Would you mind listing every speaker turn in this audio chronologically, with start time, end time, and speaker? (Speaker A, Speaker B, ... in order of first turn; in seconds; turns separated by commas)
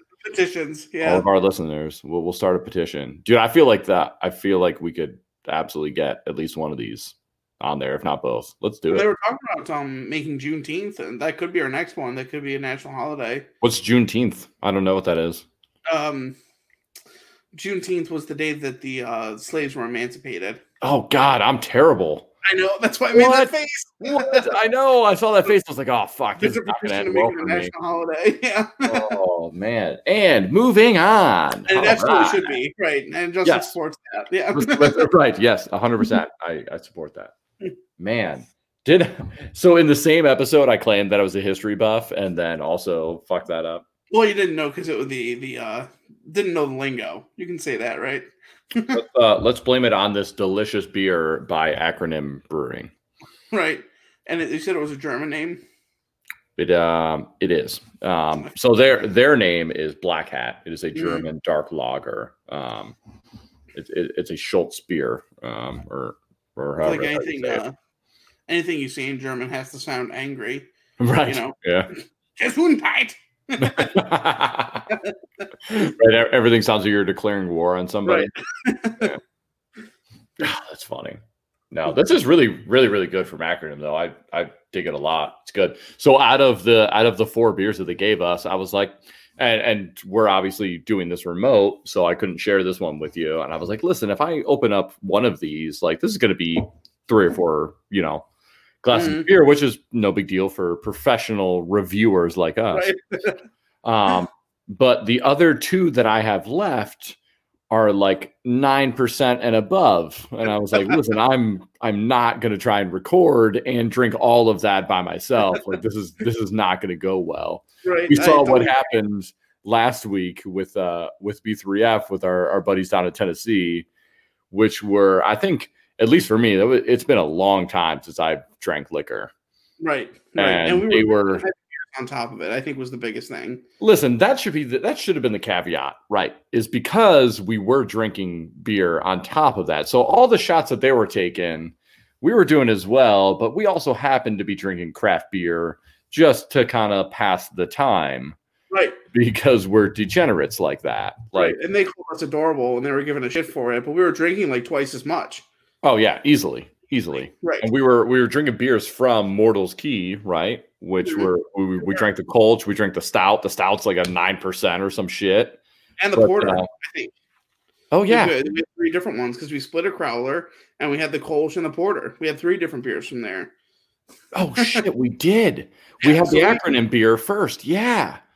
Speaker A: 0.2-1.3, Speaker B: 1.0-9.1, Speaker A: 8.9-13.5, Speaker B: 13.6-15.4, Speaker A: 15.9-16.4, Speaker A: 17.5-20.6, Speaker B: 20.8-22.3, Speaker A: 22.4-24.5, Speaker B: 23.1-27.7, Speaker A: 26.4-29.2, Speaker B: 28.9-32.5, Speaker A: 31.7-35.1, Speaker B: 33.4-33.7, Speaker B: 34.5-37.3, Speaker B: 38.0-43.8, Speaker A: 44.1-49.0, Speaker B: 48.9-52.9, Speaker A: 53.5-55.6, Speaker B: 56.5-63.0, Speaker A: 60.9-61.2, Speaker B: 63.7-67.6, Speaker A: 66.8-67.7, Speaker A: 68.5-70.7, Speaker B: 71.0-71.9, Speaker A: 71.2-74.0, Speaker B: 73.6-74.9, Speaker A: 74.9-75.1, Speaker B: 75.7-78.3, Speaker A: 78.0-79.2, Speaker B: 80.4-81.2, Speaker B: 81.7-98.2, Speaker B: 98.8-102.9, Speaker A: 98.9-99.3, Speaker A: 102.7-103.4, Speaker B: 103.8-107.2, Speaker B: 107.7-123.9, Speaker A: 117.8-118.7, Speaker B: 124.5-129.3, Speaker A: 129.8-133.6, Speaker B: 130.3-131.4, Speaker B: 133.8-148.4, Speaker A: 148.7-149.0, Speaker B: 149.1-151.6, Speaker A: 151.3-155.4, Speaker B: 155.8-165.6, Speaker A: 157.4-157.7, Speaker A: 161.0-161.3, Speaker A: 166.0-167.1, Speaker B: 166.1-166.7, Speaker B: 167.9-168.3, Speaker A: 168.0-173.5, Speaker B: 174.3-178.2, Speaker A: 176.0-176.6